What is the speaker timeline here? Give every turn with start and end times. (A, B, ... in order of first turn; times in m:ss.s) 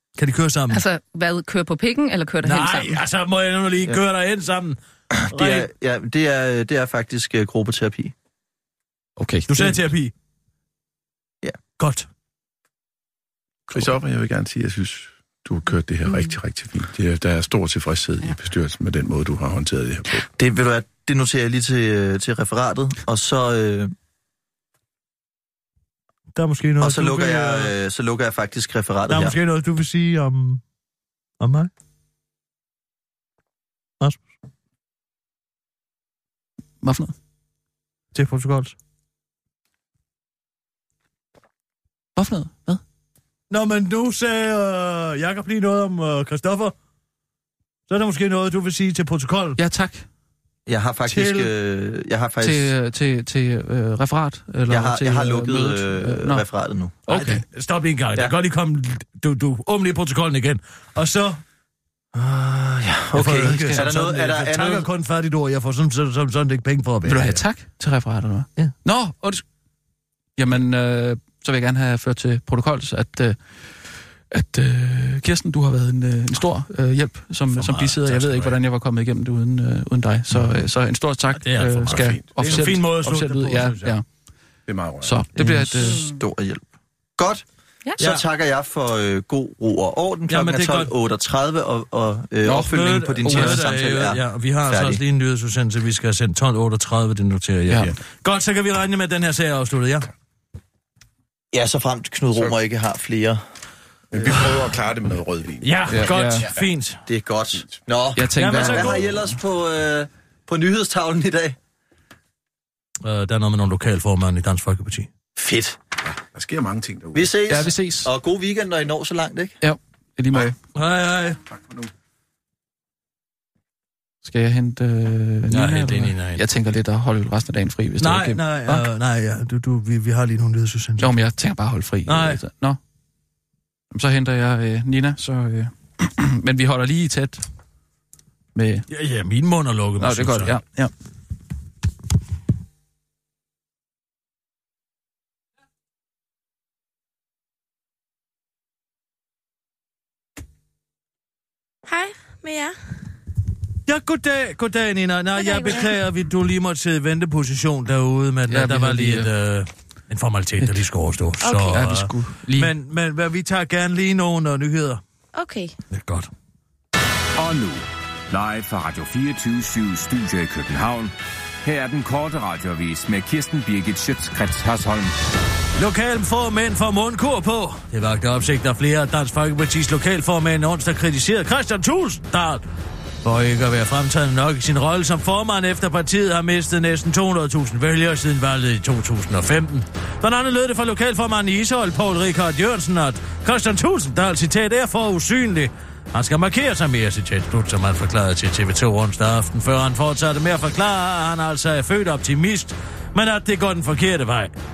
0:00.2-0:00.8 A
0:00.7-0:03.0 B
0:02.4-0:04.8 A
0:05.2-0:08.1 C
0:05.3-0:05.7 A
0:09.2-0:09.8 D
0:09.5-0:10.1 A
0:11.8-0:12.1 A
0:13.7-0:20.3 E
0:20.4-0:23.9 C
0:26.4-0:27.7 A
0:26.8-0:29.4 C
0:29.1-0:30.6 A
0:31.4-0:31.7 A
0:36.8-0:37.1 D
0:38.1-0:38.7 A
0:42.2-0:42.8 D
0:43.5-0:46.7 A
0:47.9-0:49.6 A
0:49.6-0:50.1 D
0:50.7-0:52.7 C
0:51.1-0:51.5 A
0:52.4-0:56.4 D
0:54.7-0:57.0 C
0:57.1-0:57.4 D
0:57.1-1:01.4 A
1:02.1-1:04.9 C
1:03.2-1:07.4 A
1:03.2-1:03.9 D
1:07.0-1:09.4 D
1:10.4-1:13.4 D
1:14.3-1:24.0 D
1:17.6-1:18.6 A
1:21.4-1:24.0 A
1:21.9-1:22.6 E
1:24.7-1:25.2 E
1:25.0-1:26.1 D
1:25.4-1:26.6 C
1:25.9-1:26.1 B
1:27.2-1:27.4 C
1:28.0-1:35.0 C
1:30.3-1:30.9 A
1:32.4-1:33.7 D
1:32.7-1:40.1 A
1:37.7-1:37.9 D
1:41.5-1:43.4 C
1:44.1-1:46.4 E
1:45.6-1:47.0 A
1:45.9-1:46.5 D
1:47.1-1:51.6 C
1:48.2-1:49.1 D
1:48.4-1:49.1 A
1:53.0-1:55.1 A
1:55.4-1:55.8 C
1:56.2-1:57.4 E
1:57.1-1:59.6 C
1:57.5-1:58.1 D
1:59.6-2:00.6 D
2:00.8-2:01.4 A
2:04.2-2:08.8 D
2:05.5-2:06.4 A
2:08.0-2:11.1 A
2:11.0-2:12.8 D
2:12.1-2:12.4 A
2:13.9-2:17.4 D
2:18.6-2:18.9 D
2:18.9-2:20.6 A
2:20.0-2:20.9 D
2:31.9-2:32.8 F
2:33.9-2:45.0 A
2:35.4-2:36.0 F
2:38.5-2:39.3 D
2:41.4-2:42.7 D
2:45.3-2:45.8 F
2:45.9-2:46.3 A
2:47.4-2:51.1 G
2:51.6-2:55.1 G
2:55.8-3:02.6 A
3:03.2-3:24.5 A